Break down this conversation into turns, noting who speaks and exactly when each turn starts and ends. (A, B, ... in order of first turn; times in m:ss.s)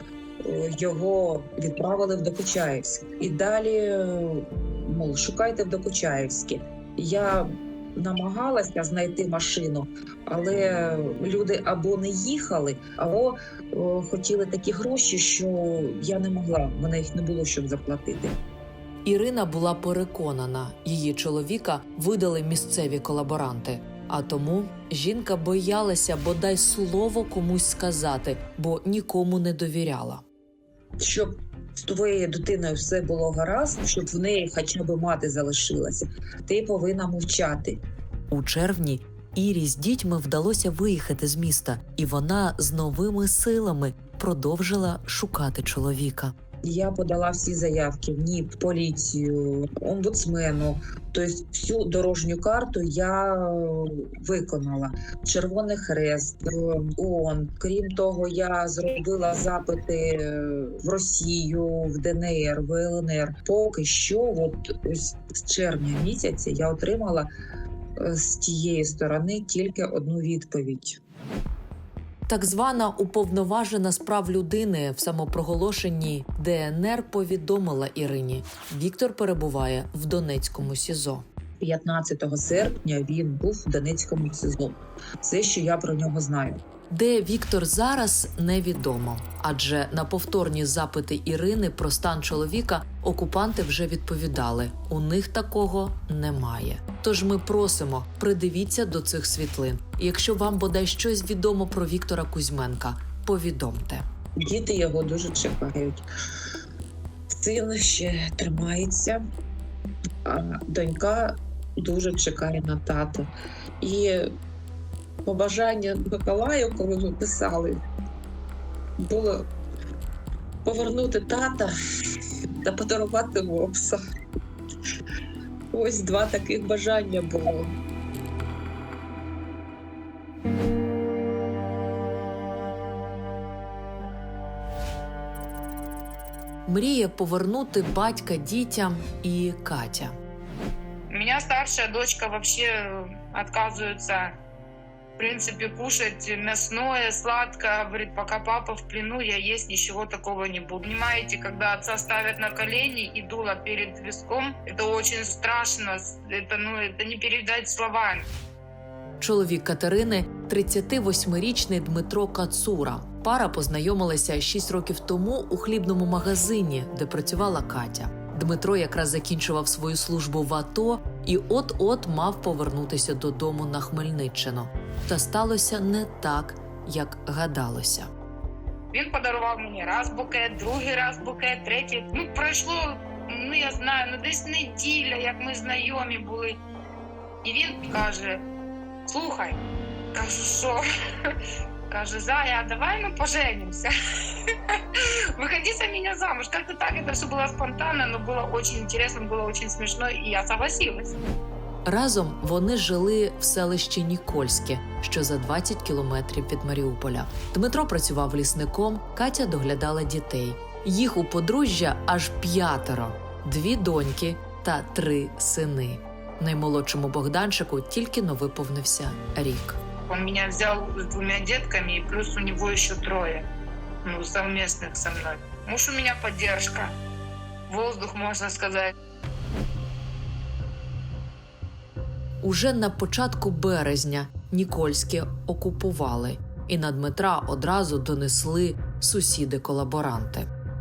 0:00.4-0:18.4 A
0:19.0-0:30.2 B
0:31.0-0:37.8 A
0:38.3-0:46.3 B
0:46.6-1:07.3 A
1:08.0-1:11.0 A
1:12.3-1:21.2 B
1:21.6-1:26.6 A
1:26.9-1:44.0 B
1:44.4-1:46.0 A
1:47.3-1:49.2 A
1:50.2-1:53.3 A
1:53.8-1:54.3 A
1:55.2-1:57.8 A
1:59.0-1:59.5 A
2:00.6-2:01.7 A
2:02.6-2:04.0 A
2:05.7-2:07.7 A
2:16.6-2:20.1 B
2:21.1-2:24.4 C
2:25.2-2:38.3 C
2:39.2-2:58.1 B
2:58.9-3:06.6 C
3:07.4-3:08.4 C
3:09.1-3:09.6 C
3:10.1-3:11.4 C
3:11.9-3:21.2 C
3:21.8-3:39.8 B
3:40.1-3:43.5 C
3:44.0-3:46.9 C
3:47.7-3:48.9 C
3:52.4-4:00.5 B